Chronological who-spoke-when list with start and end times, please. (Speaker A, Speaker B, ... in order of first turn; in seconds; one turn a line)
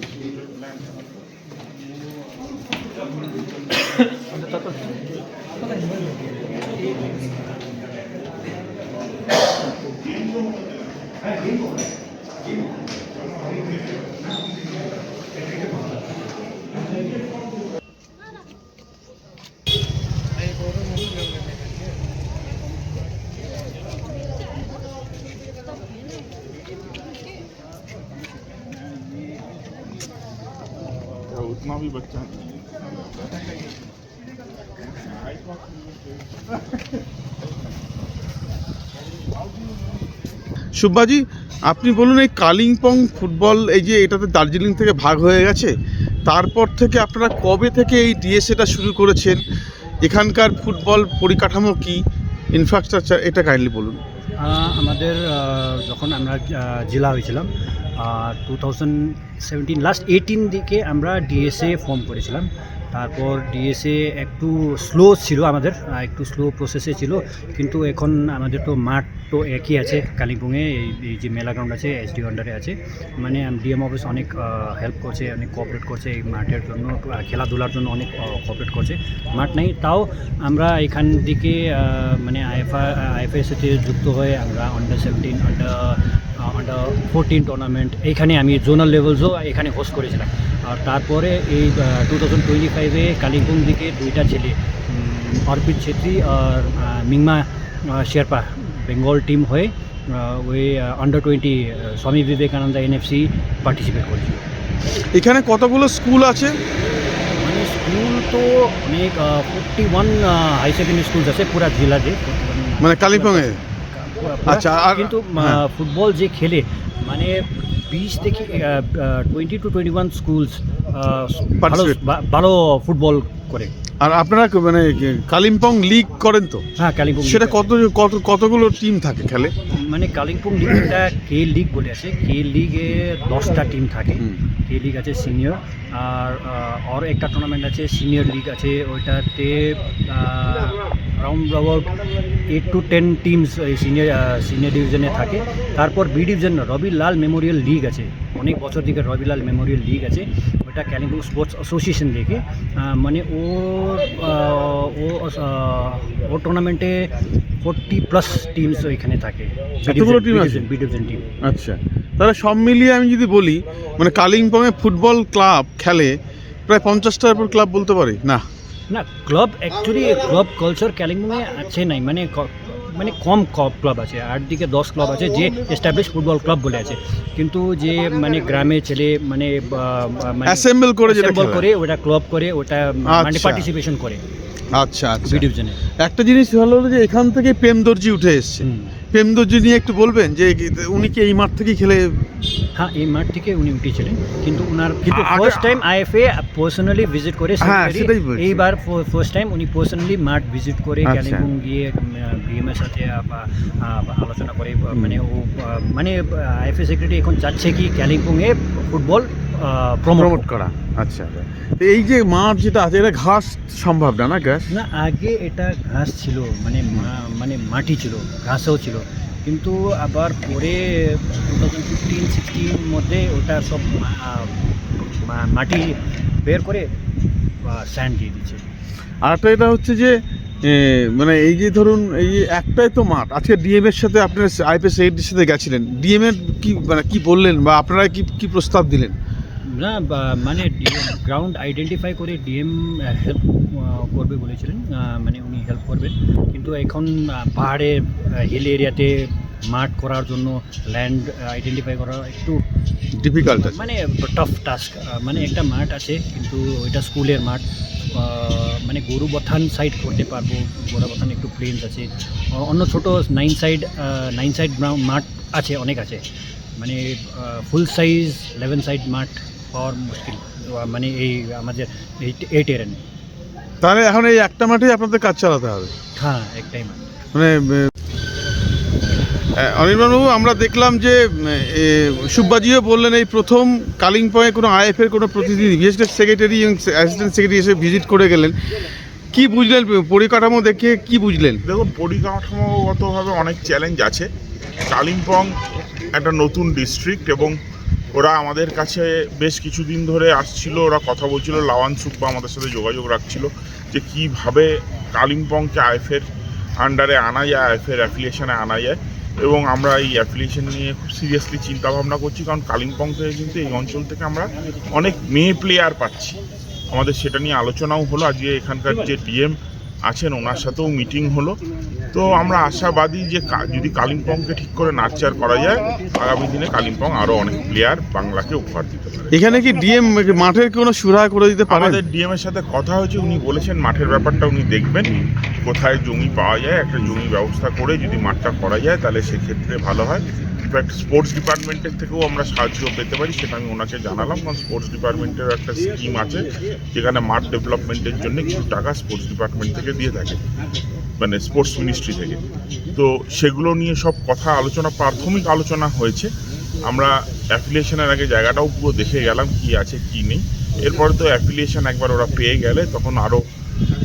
Speaker A: 31.2-33.4
Speaker A: 35.0-35.4
Speaker B: 40.8-45.7
Speaker B: 46.2-49.4
Speaker B: 50.0-54.0
Speaker C: 54.4-104.5
Speaker B: 105.1-106.6
Speaker C: 107.3-123.7
Speaker B: 112.8-113.6
Speaker B: 114.5-115.6
Speaker B: 121.6-122.0
Speaker B: 124.0-126.6
Speaker C: 126.8-127.7
Speaker B: 127.2-129.5
Speaker C: 129.7-161.3
Speaker B: 159.8-160.6
Speaker B: 161.4-166.2
Speaker B: 166.7-168.4
Speaker C: 168.9-184.2
Speaker B: 180.4-181.7
Speaker B: 183.1-183.7
Speaker B: 184.7-185.4
Speaker C: 185.2-185.8
Speaker B: 186.0-192.4
Speaker C: 188.6-188.9
Speaker C: 192.7-210.4
Speaker B: 195.0-195.8
Speaker B: 197.6-198.6
Speaker B: 201.1-201.5
Speaker B: 204.9-205.2
Speaker B: 210.1-214.7
Speaker C: 214.7-226.9
Speaker C: 227.6-228.6
Speaker B: 229.2-239.2
Speaker C: 239.6-252.6
Speaker B: 253.2-253.9
Speaker C: 253.4-266.2
Speaker C: 266.8-273.0
Speaker B: 273.8-275.9
Speaker C: 276.1-277.0
Speaker B: 277.3-277.9
Speaker B: 279.5-288.7
Speaker B: 289.3-291.6
Speaker A: 291.6-294.3
Speaker A: 294.9-295.5
Speaker A: 296.1-297.5
Speaker A: 298.1-306.2
Speaker A: 306.8-316.4
Speaker A: 316.9-319.6
Speaker A: 320.1-321.6
Speaker A: 322.1-329.3
Speaker B: 329.3-332.0
Speaker A: 331.7-350.4
Speaker A: 351.2-356.3
Speaker A: 356.8-363.4